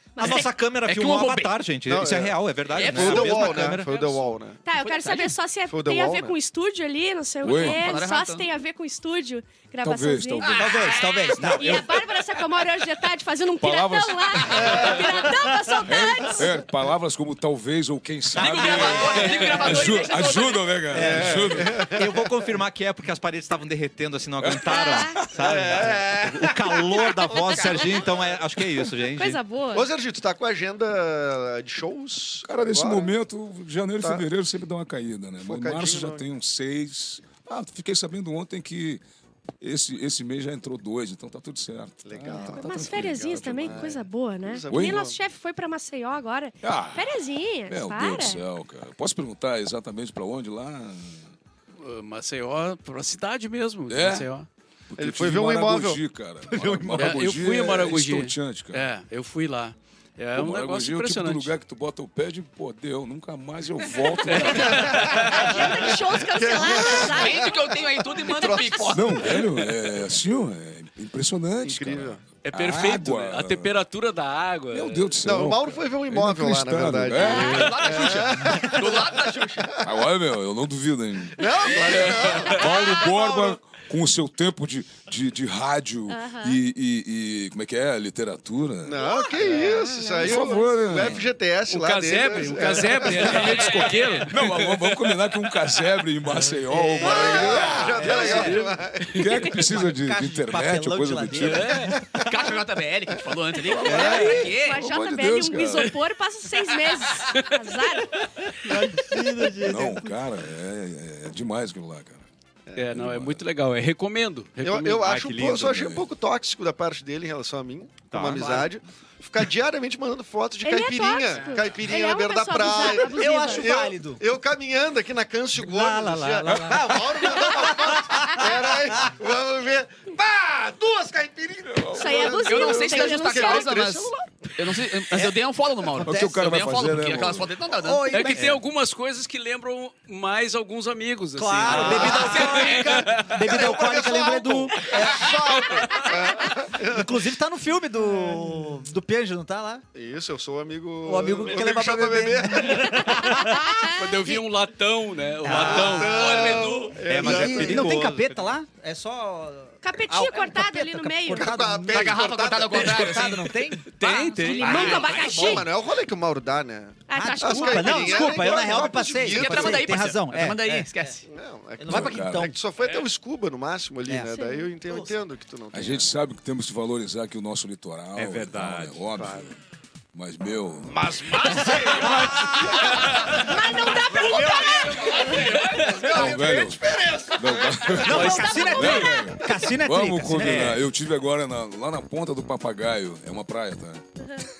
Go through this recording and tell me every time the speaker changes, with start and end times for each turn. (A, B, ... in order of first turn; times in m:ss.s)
0:00.2-0:00.5 A
0:00.2-0:03.8 B
0:00.2-0:01.6 C
0:01.9-0:04.6 D
0:02.7-0:03.7 C
0:03.7-0:04.3 E
0:04.6-0:16.6 A
0:04.7-0:05.4 C
0:05.7-0:06.4 D
0:07.4-0:07.8 F
0:07.4-0:08.5 C
0:09.8-0:12.4 F
0:10.5-0:11.8 G
0:10.8-0:11.7 B
0:13.6-0:21.9 F
0:14.5-0:15.1 D
0:18.3-0:20.7 C
0:18.4-0:19.7 G
0:20.9-0:22.3 D
0:21.0-0:29.4 B
0:24.4-0:25.4 F
0:24.7-0:25.2 A
0:25.4-0:28.4 D
0:29.1-0:29.9 A
0:29.7-0:33.1 D
0:32.4-0:39.0 F
0:34.0-0:34.2 D
0:35.4-0:36.3 D
0:39.6-0:44.0 F
0:42.0-0:45.2 D
0:42.3-0:48.4 A
0:44.7-0:45.1 F
0:46.6-0:51.3 F
0:51.8-0:54.5 E
0:53.9-0:54.3 F
0:54.9-0:58.8 F
0:55.0-0:57.2 D
0:56.9-1:01.5 E
1:00.3-1:05.1 F
1:04.2-1:06.0 E
1:04.4-1:09.5 D
1:05.2-1:07.5 A
1:06.9-1:09.4 C
1:08.9-1:13.7 F
1:11.6-1:12.2 D
1:12.4-1:15.2 E
1:14.7-1:17.9 F
1:15.2-1:20.0 D
1:17.2-1:19.8 C
1:17.2-1:17.6 A
1:19.8-1:29.0 F
1:21.3-1:23.3 D
1:21.9-1:22.5 E
1:22.6-1:23.1 A
1:26.1-1:26.6 A
1:28.8-1:33.9 D
1:28.9-1:30.7 A
1:29.4-1:29.8 E
1:30.2-1:31.3 F
1:31.7-1:35.3 E
1:33.3-1:34.2 C
1:34.2-1:38.5 F
1:36.4-1:38.5 G
1:37.0-1:39.5 D
1:37.9-1:39.5 E
1:39.1-1:41.8 F
1:39.5-1:42.0 G
1:41.4-1:42.0 E
1:42.0-1:42.5 D
1:42.2-1:44.9 C
1:43.6-1:46.0 F
1:43.9-1:44.4 G
1:43.9-1:48.2 A
1:47.2-1:49.2 E
1:48.6-1:50.2 G
1:49.6-1:52.2 F
1:52.7-1:55.1 E
1:52.9-1:53.4 F
1:54.6-2:14.5 D
1:55.0-1:55.7 B
1:55.6-1:56.1 F
1:58.1-1:58.7 B
2:00.6-2:03.7 A
2:02.8-2:04.2 G
2:05.6-2:09.0 G
2:11.7-2:12.4 F
2:11.9-2:13.7 A
2:12.4-2:18.3 C
2:15.1-2:16.3 G
2:16.0-2:17.6 F
2:17.8-2:18.6 G
2:18.0-2:23.4 E
2:21.3-2:25.4 G
2:21.7-2:27.1 D
2:26.9-2:29.8 G
2:29.9-2:33.5 D
2:31.0-2:33.7 G
2:33.0-2:34.1 A
2:33.9-2:36.6 E
2:35.4-2:36.2 G
2:35.5-2:38.1 D
2:35.8-2:37.0 C
2:37.0-2:38.5 B
2:37.1-2:43.9 G
2:39.8-2:41.5 A
2:41.3-2:43.3 D
2:41.9-2:45.6 C
2:43.9-2:45.0 E
2:44.0-2:45.7 A
2:44.6-2:50.1 D
2:44.6-2:45.6 G
2:47.1-2:48.6 A
2:47.1-2:51.1 G
2:48.5-2:51.2 C
2:51.3-2:56.1 D
2:51.8-2:52.6 G
2:51.9-2:52.6 F
2:54.1-2:55.1 G
2:54.3-2:54.7 A
2:55.7-2:59.6 F
2:58.1-2:59.0 B
2:59.1-2:59.5 D
3:00.1-3:01.4 F
3:00.8-3:08.6 D
3:01.3-3:02.2 C
3:02.0-3:02.9 G
3:02.0-3:02.6 F
3:02.8-3:03.4 E
3:03.2-3:05.4 A
3:04.1-3:04.4 G
3:04.4-3:06.4 E
3:06.0-3:14.0 F
3:08.0-3:10.8 G
3:08.0-3:08.9 E
3:08.2-3:09.4 A
3:10.3-3:10.8 D